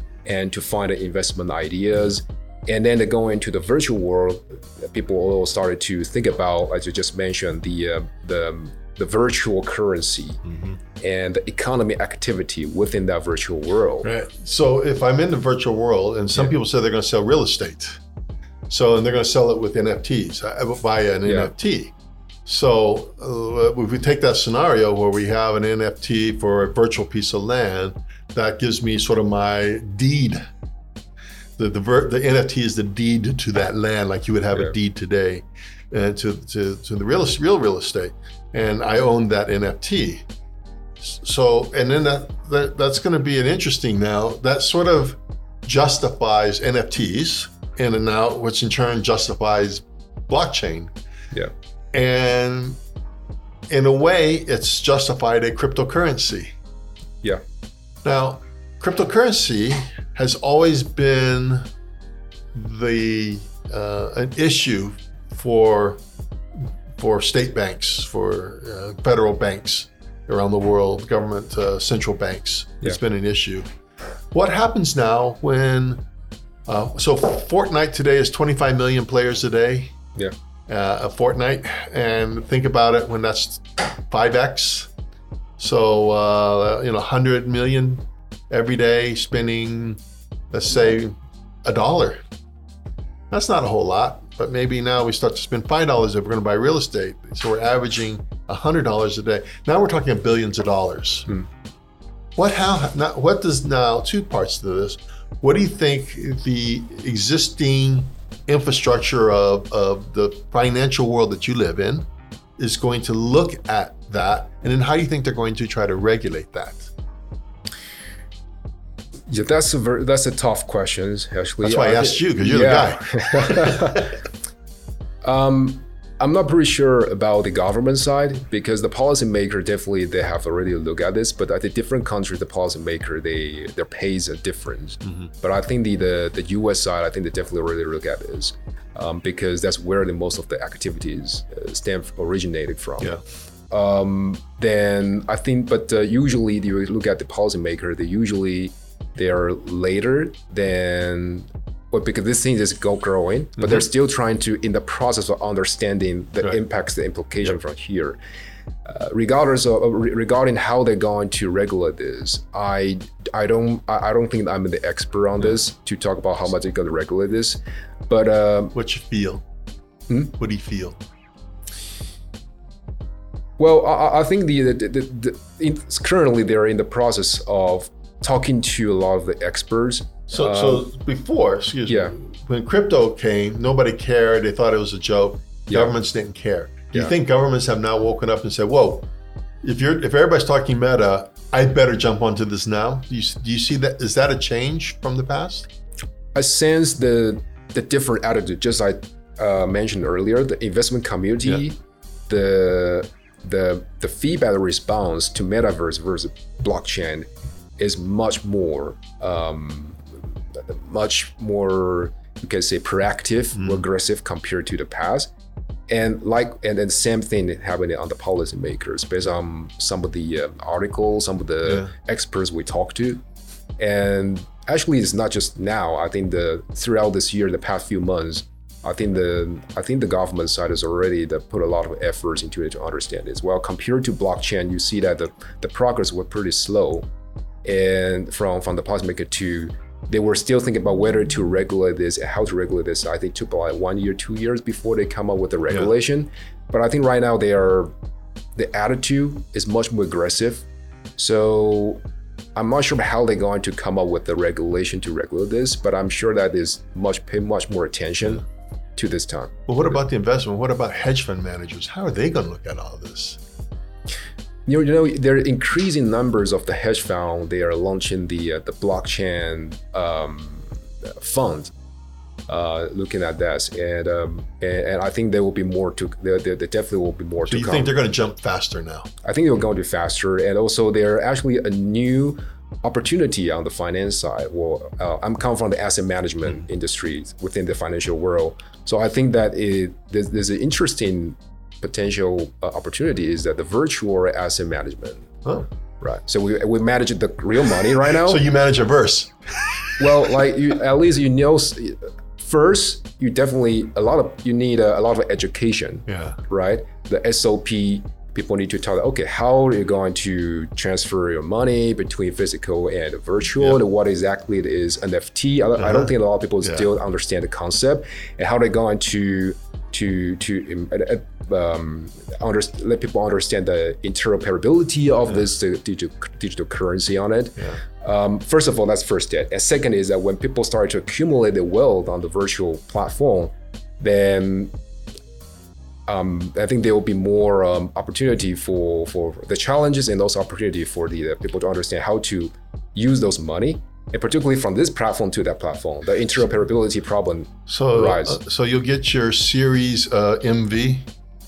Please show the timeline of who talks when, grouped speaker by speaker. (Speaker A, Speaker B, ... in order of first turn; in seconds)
Speaker A: 0.2-10.4, 11.0-14.1, 21.2-21.5, 119.3-124.2, 125.2-143.2, 143.7-158.2, 158.8-168.7, 173.6-180.9, 181.9-182.1, 196.3-201.8, 202.3-215.3, 215.9-223.2, 223.8-237.1, 237.6-247.9, 248.6-250.7, 251.2-252.0, 252.5-258.4, 258.9-259.6, 264.6-271.7, 272.5-277.9, 279.2-295.3, 296.0-298.4, 300.0-334.7, 336.1-348.4
Speaker B: 10.4-10.8, 14.0-18.0, 18.7-21.9, 22.4-30.4, 31.6-40.2, 41.0-50.9, 51.9-52.8, 53.7-56.6, 58.0-61.7, 62.5-66.0, 66.6-73.7, 74.3-76.0, 76.7-79.9, 80.7-84.9, 85.6-90.0, 90.5-92.2, 93.3-101.3, 102.4-112.0, 112.6-116.9, 121.6-124.1, 135.0-135.3, 168.7-169.4, 170.3-171.0, 180.3-189.1, 189.6-195.7, 213.5-213.8, 221.7-221.9, 259.7-263.4, 277.5-279.1, 297.9-300.0, 306.1-306.4, 315.8-316.9, 347.7-351.1